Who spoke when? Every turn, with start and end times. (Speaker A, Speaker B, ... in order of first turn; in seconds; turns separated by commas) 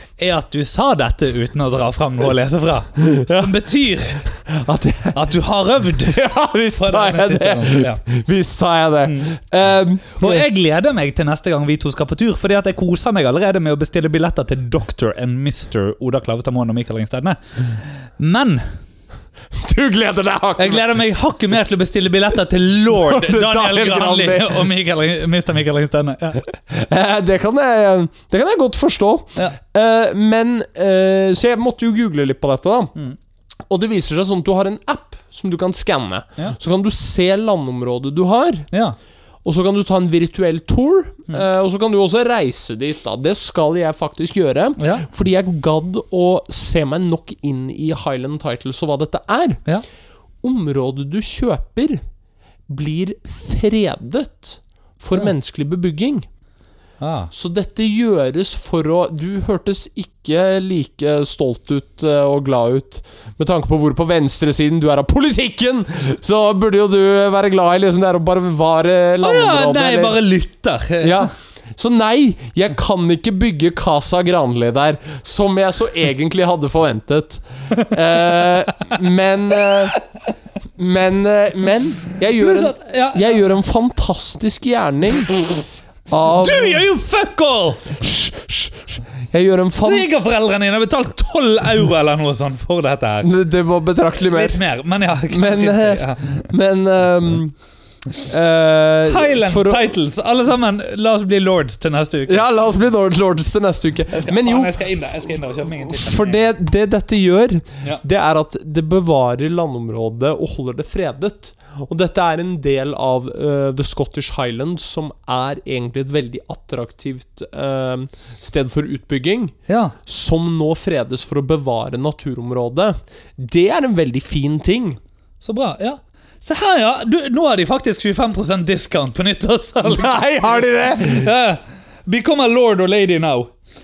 Speaker A: 0.2-4.3, Speaker B: 3.0-3.6, Speaker B: 4.3-5.2, Speaker A: 5.1-6.2, Speaker B: 6.0-10.4, Speaker A: 6.8-8.0, Speaker A: 10.2-18.6, Speaker B: 19.6-20.8, Speaker A: 20.6-26.4, Speaker B: 22.9-24.7, Speaker B: 26.5-32.9, Speaker B: 33.7-38.7, Speaker B: 39.4-49.6, Speaker A: 44.8-45.0, Speaker B: 50.4-52.0, Speaker B: 52.7-56.3, Speaker A: 57.0-57.3, Speaker B: 57.3-70.2, Speaker A: 69.2-71.3, Speaker B: 71.0-80.0, Speaker B: 80.8-86.8, Speaker A: 82.3-83.4, Speaker A: 86.2-88.0, Speaker B: 87.9-90.1, Speaker A: 89.8-93.3, Speaker B: 93.2-94.6, Speaker A: 94.1-96.5, Speaker B: 95.3-97.5, Speaker B: 98.2-99.8, Speaker A: 99.1-102.5, Speaker B: 102.3-104.8, Speaker A: 104.1-106.4, Speaker B: 105.7-119.5, Speaker A: 119.7-119.9, Speaker B: 120.0-125.0, Speaker A: 125.4-133.5, Speaker B: 129.8-131.3